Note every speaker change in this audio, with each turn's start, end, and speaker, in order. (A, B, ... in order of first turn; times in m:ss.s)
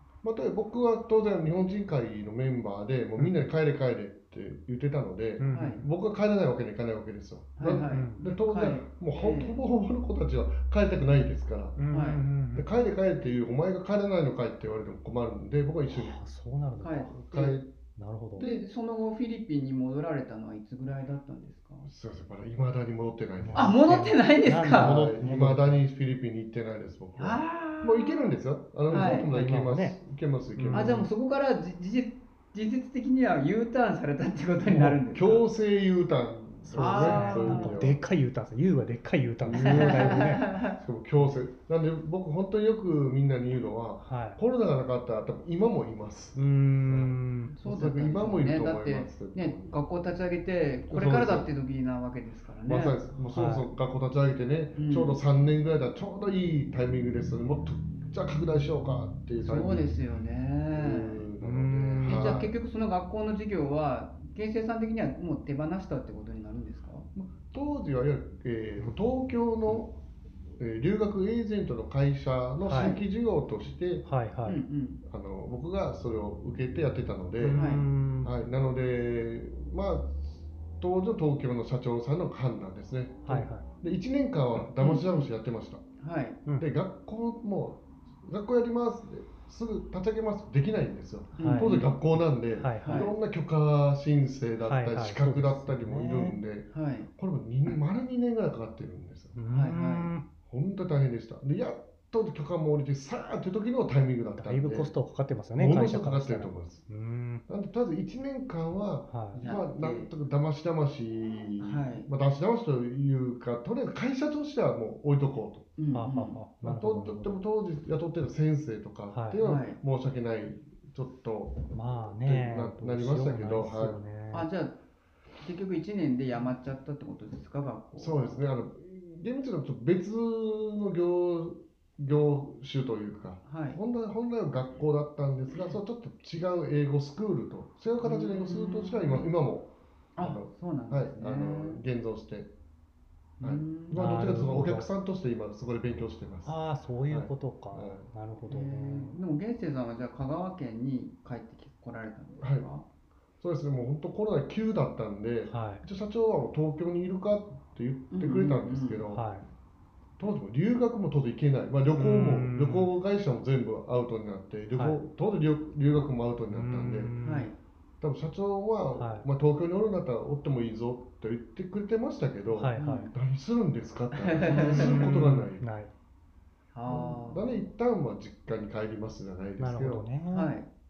0:00.2-0:11.8 A
0:05.4-0:05.9 B
0:05.5-0:05.8 C
0:07.6-0:09.6 C
0:07.8-0:08.2 B
0:11.8-0:12.7 B
0:11.9-0:12.2 C
0:12.5-0:16.2 A
0:15.9-0:17.2 B
0:16.8-0:17.6 C
0:17.2-0:17.7 A
0:18.0-0:18.5 B
0:18.4-0:18.6 A
0:18.4-0:21.9 C
0:21.9-0:23.8 A
0:23.4-0:25.8 B
0:23.6-0:25.1 C
0:24.8-0:31.1 A
0:27.2-0:28.4 C
0:28.9-0:29.3 C
0:28.9-0:30.0 B
0:30.6-0:31.1 B
0:30.7-0:35.4 C
0:34.6-0:35.0 B
0:35.1-0:38.0 A
0:36.7-0:40.5 B
0:36.7-0:37.8 C
0:39.4-0:49.8 A
0:39.5-0:40.8 C
0:44.0-0:44.4 B
0:46.4-0:47.6 B
0:47.5-0:53.0 C
0:50.9-0:51.5 A
0:52.7-0:59.9 A
0:53.3-0:53.7 B
0:54.8-0:55.2 C
0:59.4-1:01.3 C
1:00.7-1:02.5 A
1:01.4-1:02.2 B
1:01.9-1:07.1 C
1:07.2-1:10.0 A
1:10.6-1:14.1 A
1:12.6-1:13.0 B
1:12.7-1:13.0 C
1:14.0-1:14.6 B
1:14.5-1:15.0 C
1:15.0-1:17.7 A
1:17.4-1:18.3 B
1:17.5-1:17.8 C
1:18.2-1:25.8 A
1:23.2-1:23.7 B
1:24.8-1:25.3 C
1:26.0-1:26.4 C
1:26.6-1:39.4 A
1:31.4-1:31.9 C
1:31.4-1:31.7 B
1:32.6-1:33.1 B
1:32.8-1:33.1 C
1:34.6-1:36.4 B
1:36.7-1:37.1 C
1:39.4-1:40.2 B
1:39.5-1:40.1 C
1:40.5-1:44.9 A
1:44.4-1:47.4 B
1:45.6-1:46.8 A
1:47.5-1:55.7 A
1:49.1-1:49.4 B
1:49.4-1:50.1 C
1:51.6-1:52.1 C
1:55.8-1:56.4 C
1:55.9-1:57.4 B
1:56.6-2:04.0 A
1:59.1-1:59.4 B
1:59.4-1:59.8 C
2:01.7-2:04.5 B
2:04.3-2:04.8 C
2:05.4-2:08.4 C
2:08.0-2:22.5 A
2:13.4-2:13.8 C
2:18.0-2:19.2 C
2:20.2-2:21.8 C
2:23.4-2:24.3 C
2:23.4-2:26.6 A
2:24.0-2:24.9 B
2:26.4-2:29.2 B
2:27.1-2:28.0 A
2:28.5-2:32.8 C
2:32.4-2:32.7 A
2:33.4-2:39.2 A
2:35.5-2:35.8 B
2:38.1-2:39.0 C
2:39.1-2:39.4 B
2:40.2-2:47.1 A
2:42.0-2:42.9 B
2:44.8-2:45.0 B
2:46.5-2:47.5 B
2:47.2-2:47.6 C
2:48.0-2:55.6 A
2:49.0-2:49.3 B
2:52.5-2:53.1 B
2:52.8-2:53.1 C
2:54.1-2:55.0 C
2:54.5-2:55.9 B
2:56.7-2:57.7 C
2:56.9-3:00.1 A
2:59.6-3:00.5 B
3:00.3-3:00.7 C